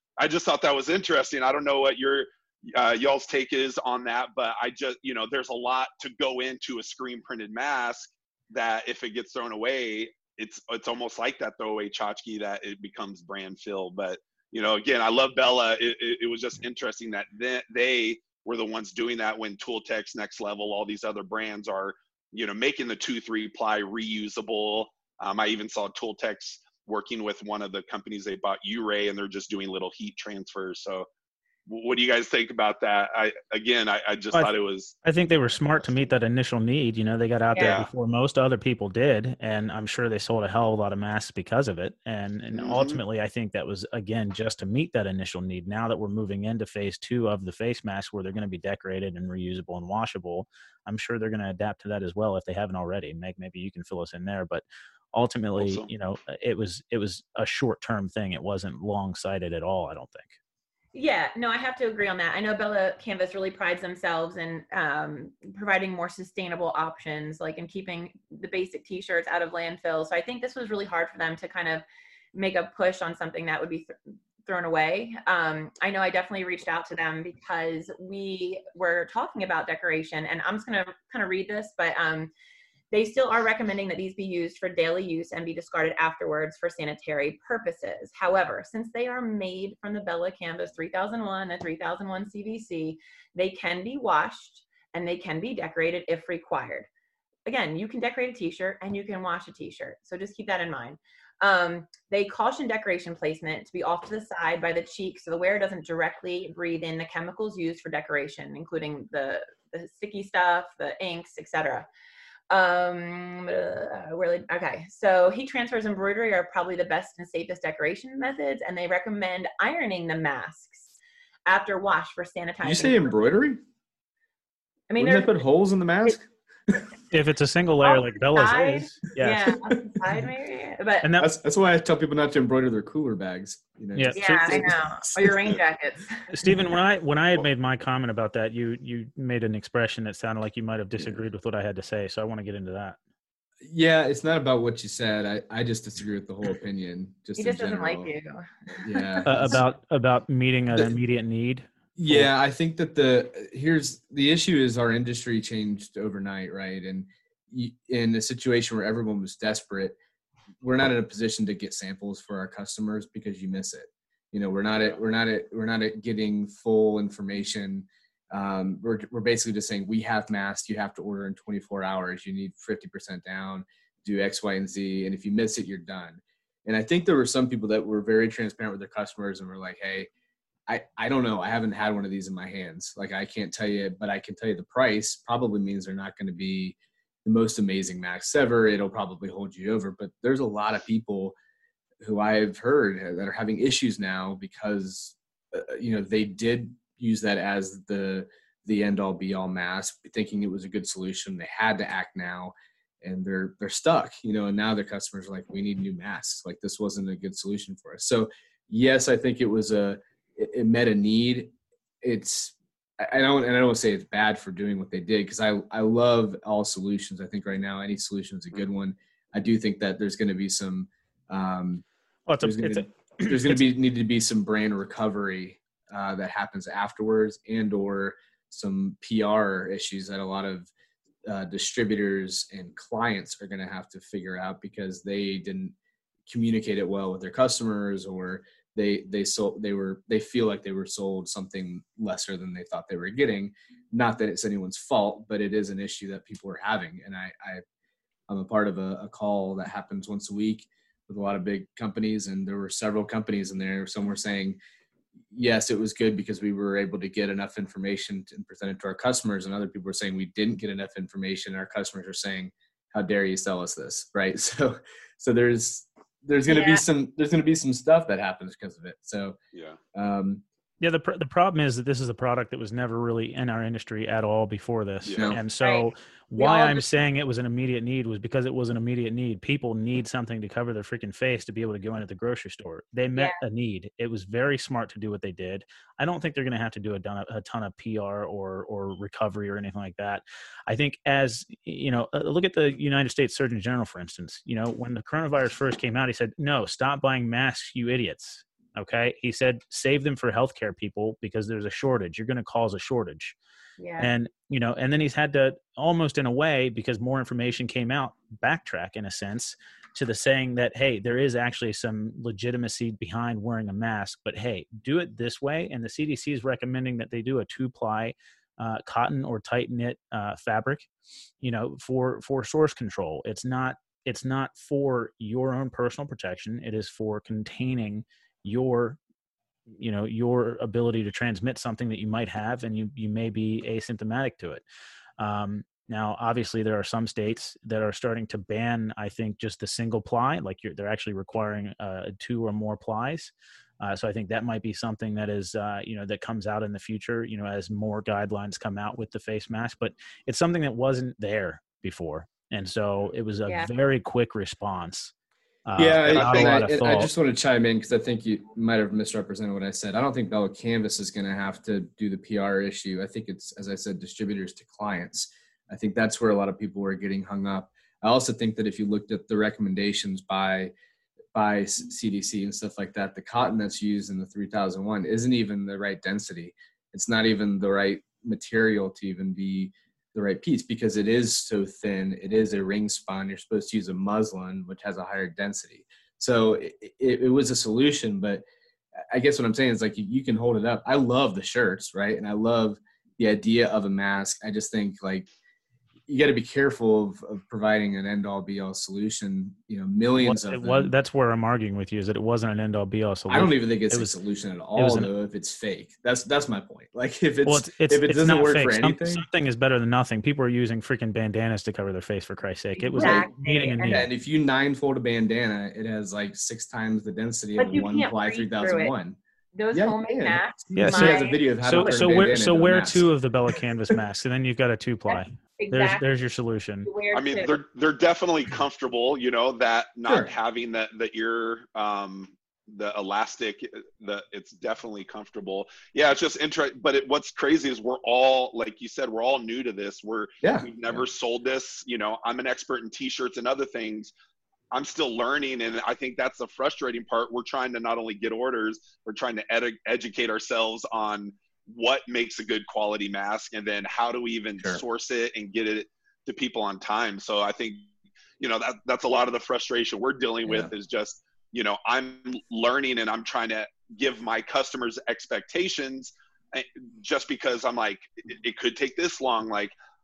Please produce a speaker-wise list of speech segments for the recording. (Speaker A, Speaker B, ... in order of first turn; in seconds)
Speaker A: 0.2-31.1, 31.7-35.0, 37.6-37.9, 42.5-43.0, 55.6-55.9, 269.5-269.8, 275.1-275.4, 356.1-356.6, 427.1-444.1, 444.7-457.9, 458.4-469.7
Speaker B: 35.0-60.3, 127.1-129.5, 131.0-131.3, 134.0-134.7, 136.3-143.0, 149.2-152.3, 222.3-223.6, 270.8-303.4, 304.0-320.9, 321.4-329.0, 329.8-334.6, 335.2-355.1, 355.7-357.1, 400.2-404.1, 404.8-405.1, 407.4-414.1, 420.8-426.9
Speaker C: 60.9-82.3, 82.9-96.9, 97.5-111.9, 112.5-120.9, 121.5-123.1, 124.9-125.4, 127.8-131.2, 134.2-136.2, 147.4-149.5, 266.5-266.8, 275.6-276.8, 303.8-304.1, 412.8-414.0, 417.6-418.9, 419.6-422.3, 425.1-426.1, 426.9-427.6
Speaker D: 122.6-123.6, 125.0-126.8, 129.7-130.0, 131.2-135.6, 143.6-148.1, 148.8-149.6, 152.0-160.0, 160.6-180.1, 180.7-191.4, 192.0-221.8, 222.4-230.7, 231.2-235.8, 236.3-247.6, 248.3-254.6, 255.3-269.4, 269.9-270.4, 275.1-275.4, 355.8-370.7, 371.3-388.4, 389.1-395.3, 396.1-400.9, 403.3-409.3, 413.0-413.3, 413.9-419.2, 419.7-423.1, 430.1-430.3, 440.4-441.1, 460.4-460.7